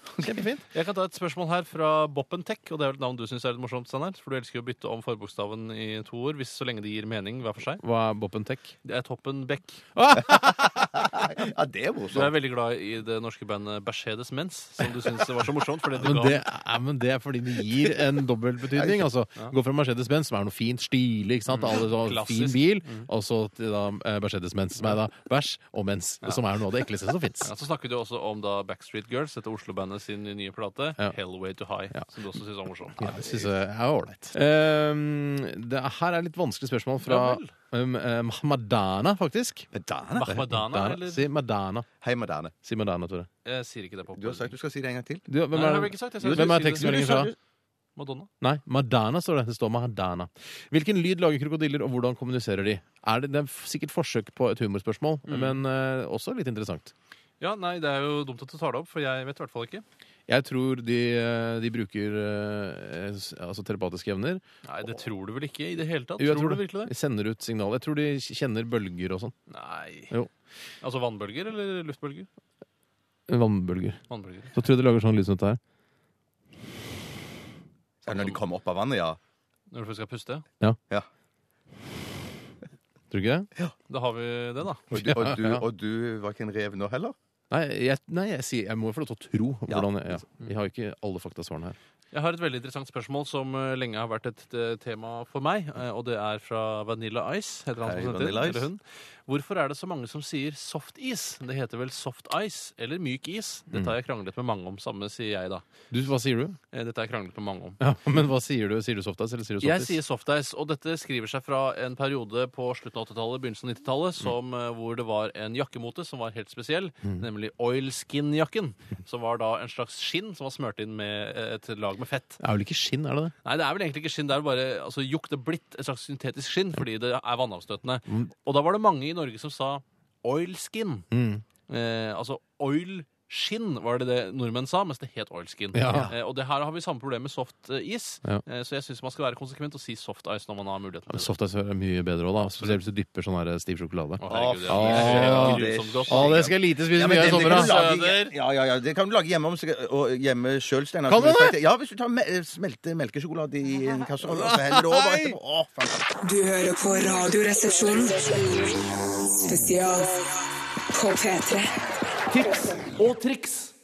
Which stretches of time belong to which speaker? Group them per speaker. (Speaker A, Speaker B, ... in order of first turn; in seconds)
Speaker A: 0.2-0.6, 7.8-8.7, 9.9-11.1, 16.0-27.5, 33.0-39.7, 40.4-41.9, 42.6-43.3, 45.3-47.3, 48.4-56.9, 60.3-64.4, 66.2-69.3, 73.3-74.0, 74.5-75.6, 83.1-83.5, 84.9-85.6, 87.5-91.8, 105.9-106.6, 107.8-110.0, 122.4-123.3, 131.1-131.4, 135.7-136.1, 141.1-147.8, 151.1-151.6, 154.2-155.4
Speaker B: 0.7-7.8, 8.8-9.8, 12.1-16.4, 21.5-23.1, 27.4-33.4, 37.0-37.5, 40.1-41.2, 43.4-44.5, 45.5-47.3, 48.0-48.3, 55.3-55.6, 57.4-59.8, 64.6-66.9, 69.5-70.1, 70.8-72.3, 74.1-74.6, 78.0-78.4, 79.7-80.5, 83.9-84.9, 92.1-105.6, 106.7-107.8, 109.6-122.4, 123.4-131.1, 131.7-141.3, 144.2-146.5, 147.1-148.3, 162.3-163.7
Speaker C: 10.9-12.3, 18.8-19.0, 39.7-40.5, 42.0-42.5, 44.1-45.3, 46.2-47.3, 78.0-79.2, 84.9-87.1, 97.8-98.7, 144.3-156.1
Speaker D: 156.2-158.8, 159.4-160.2, 160.9-161.7